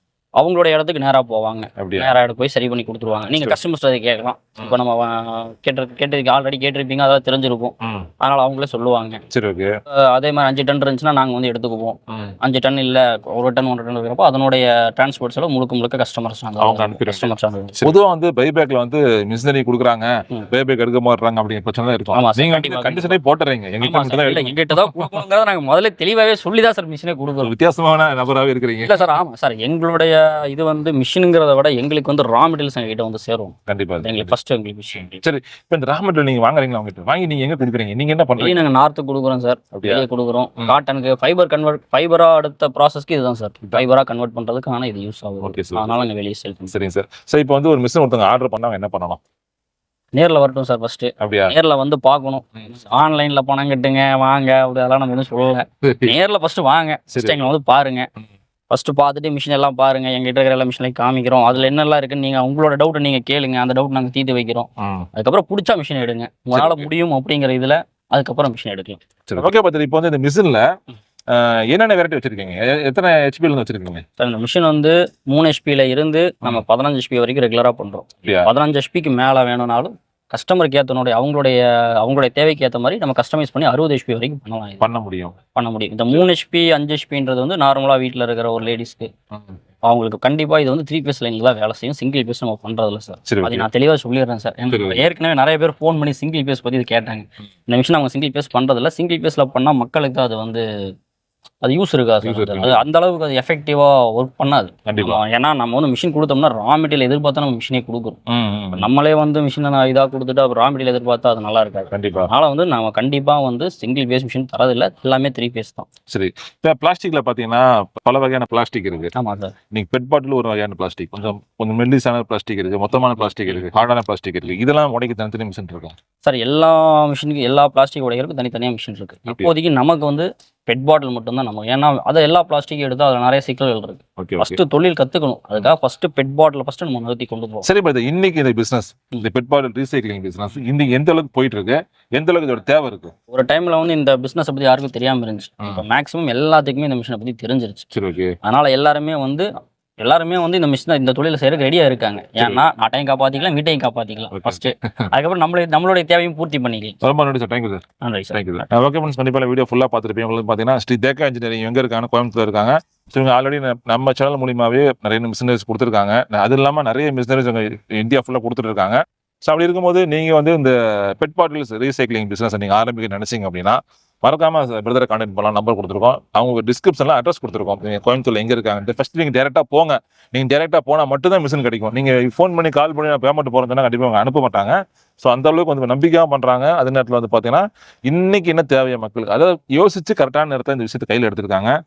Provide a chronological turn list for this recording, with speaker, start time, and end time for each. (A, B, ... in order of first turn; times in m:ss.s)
0:00.4-0:09.2 A
0:01.8-0:02.2 B
0:03.3-0:03.6 B
0:09.3-0:09.8 B
0:09.9-0:17.9 A
0:16.6-0:25.2 B
0:22.1-0:23.2 A
0:23.8-0:27.5 A
0:27.4-0:29.2 B
0:28.8-0:35.2 A
0:33.7-0:34.4 B
0:35.2-0:38.7 B
0:38.4-0:46.7 A
0:39.7-0:40.0 B
0:45.4-0:46.1 B
0:46.7-0:49.2 B
0:50.1-0:58.1 A
0:51.2-0:51.6 B
0:55.8-0:56.2 B
0:57.1-0:57.5 B
0:58.7-1:09.0 A
1:04.8-1:05.1 B
1:06.5-1:06.9 B
1:09.3-1:10.7 B
1:11.3-1:14.0 B
1:14.2-1:24.8 A
1:18.2-1:18.5 B
1:24.8-1:25.4 B
1:25.6-1:29.1 A
1:29.8-1:40.6 A
1:33.2-1:33.7 B
1:34.7-1:35.1 B
1:41.6-1:48.2 A
1:42.2-1:42.8 B
1:44.9-1:45.2 B
1:48.3-1:48.9 B
1:48.8-1:55.9 A
1:51.9-1:52.3 B
1:56.1-1:59.1 B
1:59.2-1:59.5 A
1:59.7-2:06.0 B
2:06.2-2:17.7 A
2:09.3-2:09.5 B
2:14.2-2:14.6 B
2:17.6-2:23.1 B
2:23.3-2:27.9 A
2:27.9-2:28.4 B
2:28.4-2:29.5 A
2:30.0-2:37.0 A
2:32.4-2:32.6 B
2:34.3-2:35.1 B
2:37.0-3:11.7 B
2:38.0-2:38.4 A